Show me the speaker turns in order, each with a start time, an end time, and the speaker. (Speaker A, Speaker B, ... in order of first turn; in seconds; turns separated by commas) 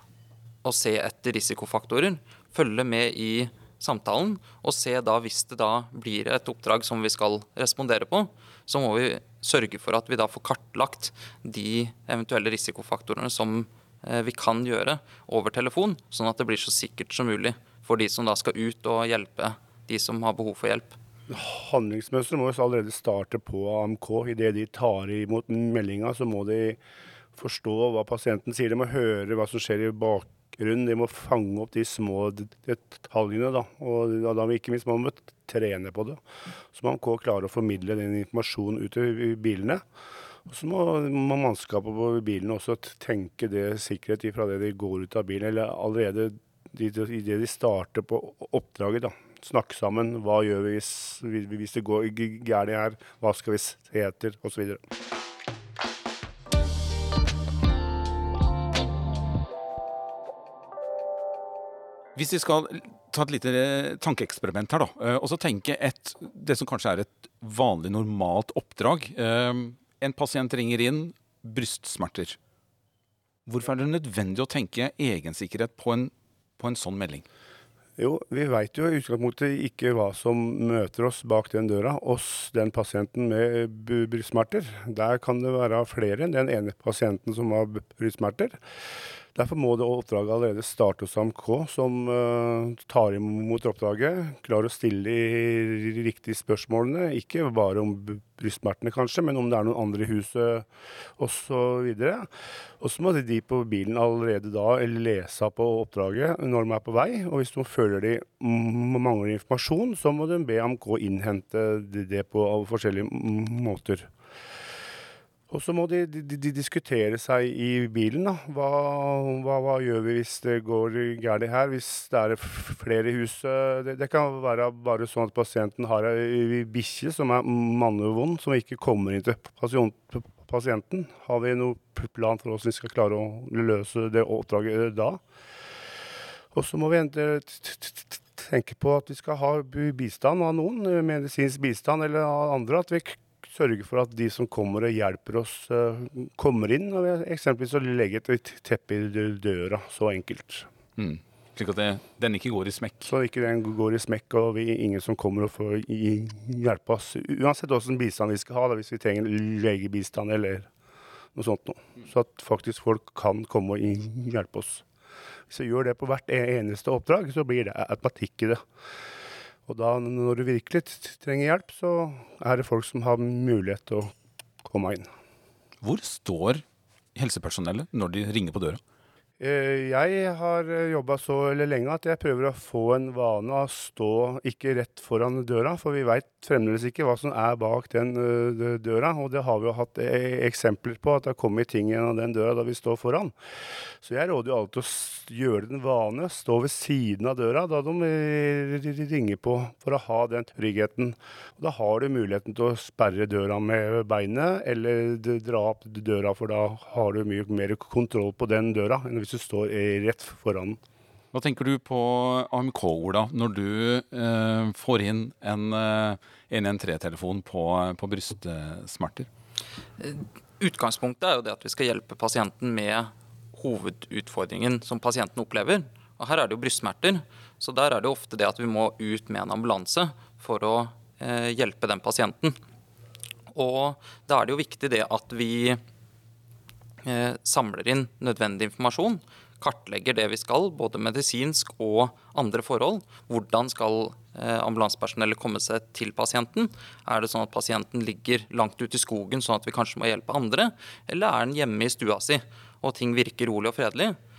Speaker A: 0.6-20.9, Speaker B: 21.3-26.8, Speaker B: 27.4-36.2, Speaker B: 36.7-39.8, Speaker B: 40.5-54.8, Speaker C: 62.1-72.4, Speaker C: 73.5-77.2, Speaker B: 78.0-88.6, Speaker B: 89.3-102.3, Speaker B: 102.8-114.1, Speaker B: 115.5-135.2, Speaker B: 136.5-150.7, Speaker C: 151.0-153.1, Speaker B: 153.1-160.7, Speaker B: 161.3-164.8, Speaker B: 165.5-168.6, Speaker B: 169.7-174.1, Speaker B: 174.6-175.1, Speaker C: 175.8-176.6, Speaker C: 177.1-178.8, Speaker B: 179.4-193.3, Speaker B: 194.0-210.8, Speaker C: 211.3-219.3, Speaker A: 220.0-232.6, Speaker A: 233.5-235.8, Speaker A: 237.0-254.2